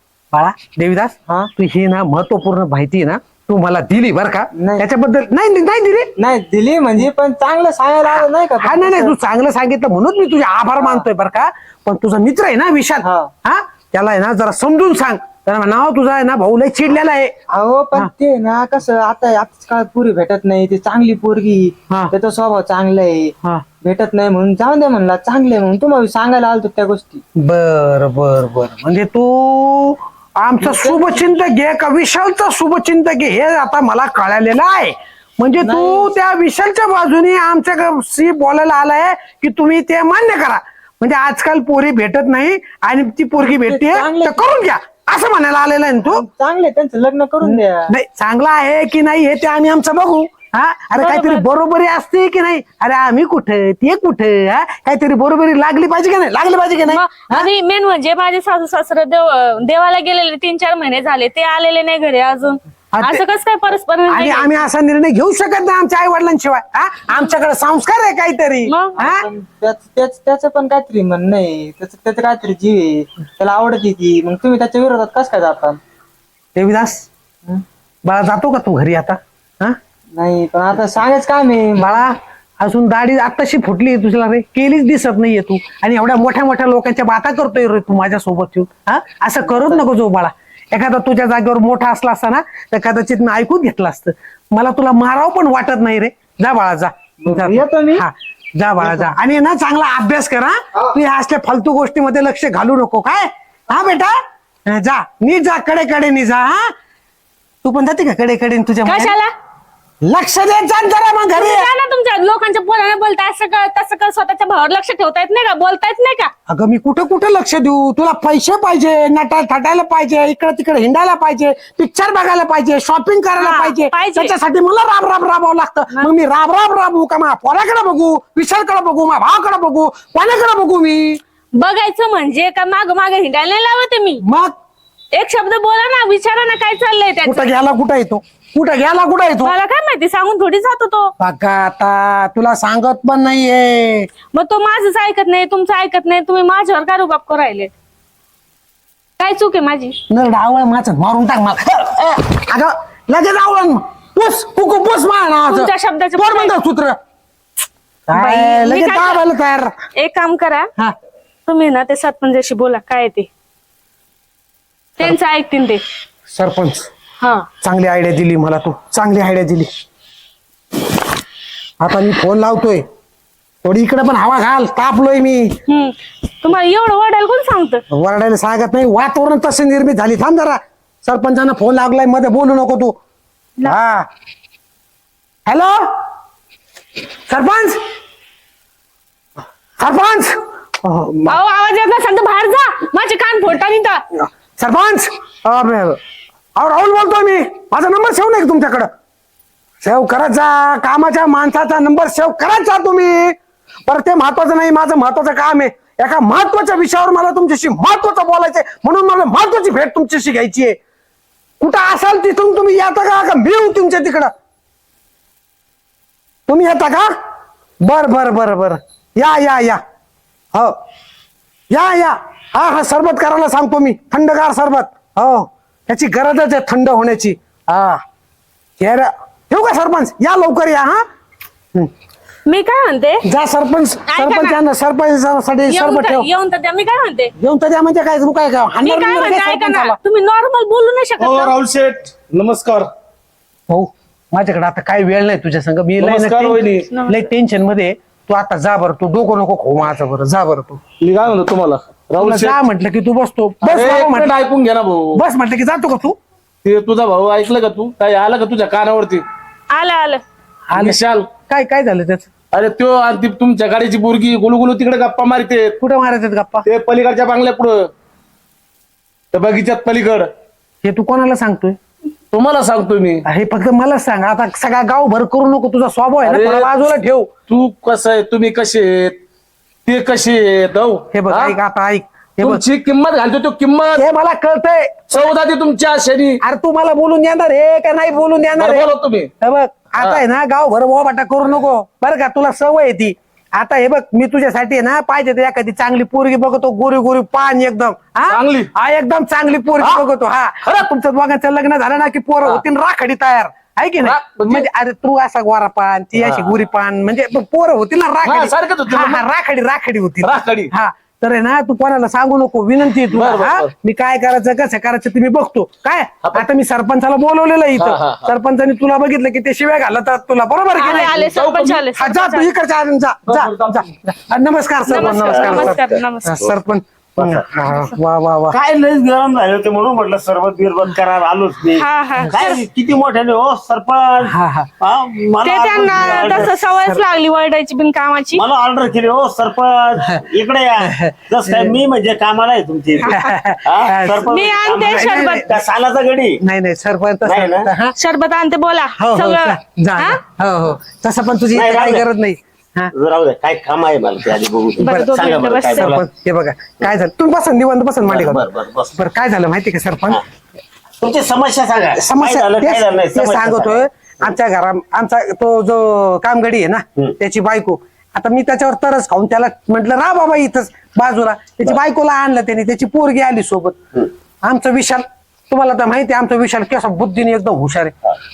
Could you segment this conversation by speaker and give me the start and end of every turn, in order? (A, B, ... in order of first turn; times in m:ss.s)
0:00.3-0:06.1 A
0:04.6-0:04.8 B
0:06.2-0:09.1 B
0:08.1-0:17.3 A
0:10.8-0:11.0 B
0:13.0-0:13.3 B
0:17.5-0:27.2 B
0:27.4-0:46.2 A
0:30.6-0:31.3 B
0:35.6-0:36.1 B
0:43.4-0:44.4 B
0:46.0-0:47.9 B
0:47.4-0:57.5 A
0:51.0-0:51.4 C
0:56.8-1:04.6 C
1:02.9-1:03.2 A
1:04.1-1:09.2 A
1:08.7-1:09.0 C
1:09.0-1:15.8 B
1:16.6-1:17.1 A
1:18.0-1:19.8 A
1:20.2-1:22.0 B
1:21.8-1:44.2 A
1:29.5-1:29.8 B
1:37.2-1:38.1 B
1:38.8-1:39.1 B
1:44.7-1:46.7 A
1:47.6-1:49.2 A
1:48.8-1:49.3 C
1:50.0-1:51.7 A
1:51.3-1:56.3 C
1:56.5-2:11.2 A
2:03.4-2:04.3 C
2:11.6-2:14.2 C
2:14.3-2:14.5 A
2:15.1-2:17.5 C
2:17.2-2:19.6 A
2:19.4-2:21.1 C
2:21.2-2:24.1 A
2:24.3-2:27.7 C
2:29.2-2:30.0 C
2:30.1-2:37.0 A
2:35.5-2:36.6 C
2:38.1-2:39.7 A
2:38.1-2:39.2 C
2:40.0-2:40.7 C
2:41.5-2:43.3 C
2:45.0-2:45.8 C
2:46.3-2:46.9 A
2:47.2-2:47.5 C
2:47.6-2:49.7 A
2:51.8-2:52.8 A
2:53.6-2:55.6 A
2:55.7-2:57.8 C
2:57.9-3:03.0 A
3:03.6-3:04.1 A
3:05.5-3:05.8 A
3:07.3-3:07.8 A
3:09.8-3:11.4 A
3:11.3-3:14.0 C
3:14.2-3:16.0 A
3:16.6-3:18.9 A
3:19.8-3:30.8 A
3:31.6-3:34.3 A
3:36.5-3:37.1 A
3:37.8-3:39.8 A
3:41.7-3:48.0 A
3:48.8-3:51.0 A
3:52.5-3:53.2 C
3:53.3-3:56.3 A
3:54.1-3:54.6 C
3:55.7-3:57.3 C
3:57.4-4:00.0 A
3:58.8-4:01.6 C
4:01.2-4:02.9 D
4:03.7-4:10.8 A
4:06.0-4:06.9 D
4:06.9-4:07.2 C
4:11.0-4:12.6 D
4:12.2-4:14.4 A
4:13.6-4:15.2 D
4:15.1-4:16.2 A
4:16.6-4:19.2 D
4:19.7-4:20.2 C
4:20.7-4:22.3 A
4:20.8-4:21.3 D
4:22.5-4:25.8 D
4:25.8-4:26.7 A
4:26.7-4:27.9 D
4:29.3-4:30.3 D
4:30.8-4:31.8 A
4:32.3-4:33.2 D
4:33.3-4:37.3 A
4:36.2-4:36.7 D
4:37.5-4:39.2 D
4:39.9-4:41.6 D
4:41.1-4:42.6 A
4:42.4-4:44.0 D
4:44.0-4:45.3 A
4:45.1-4:46.4 D
4:46.4-5:21.3 A
4:48.6-4:49.3 D
4:50.0-4:50.2 D
4:58.3-4:58.7 D
5:04.0-5:04.7 D
5:06.2-5:06.6 D
5:08.2-5:09.2 D
5:10.2-5:10.7 D
5:13.1-5:13.7 D
5:17.8-5:18.3 D
5:20.7-5:22.5 C
5:20.9-5:21.8 D
5:21.9-5:28.6 A
5:23.3-5:23.8 D
5:24.9-5:26.4 C
5:24.9-5:26.5 E
5:27.2-5:27.5 E
5:28.5-5:36.5 E
5:31.7-5:32.6 C
5:34.3-5:34.7 A
5:35.4-5:38.4 C
5:35.9-5:37.0 A
5:38.4-5:46.4 E
5:40.8-5:41.8 A
5:43.1-5:44.2 A
5:44.3-5:45.5 C
5:44.9-5:45.5 A
5:46.4-5:47.9 A
5:47.2-5:47.7 E
5:48.0-5:50.2 C
5:49.0-5:52.9 A
5:51.5-5:52.1 E
5:52.9-5:56.0 E
5:54.8-5:56.0 C
5:54.8-5:55.2 A
5:55.8-6:00.2 A
5:58.0-5:59.0 E
6:01.0-6:04.3 E
6:02.0-6:13.8 A
6:14.4-6:18.0 A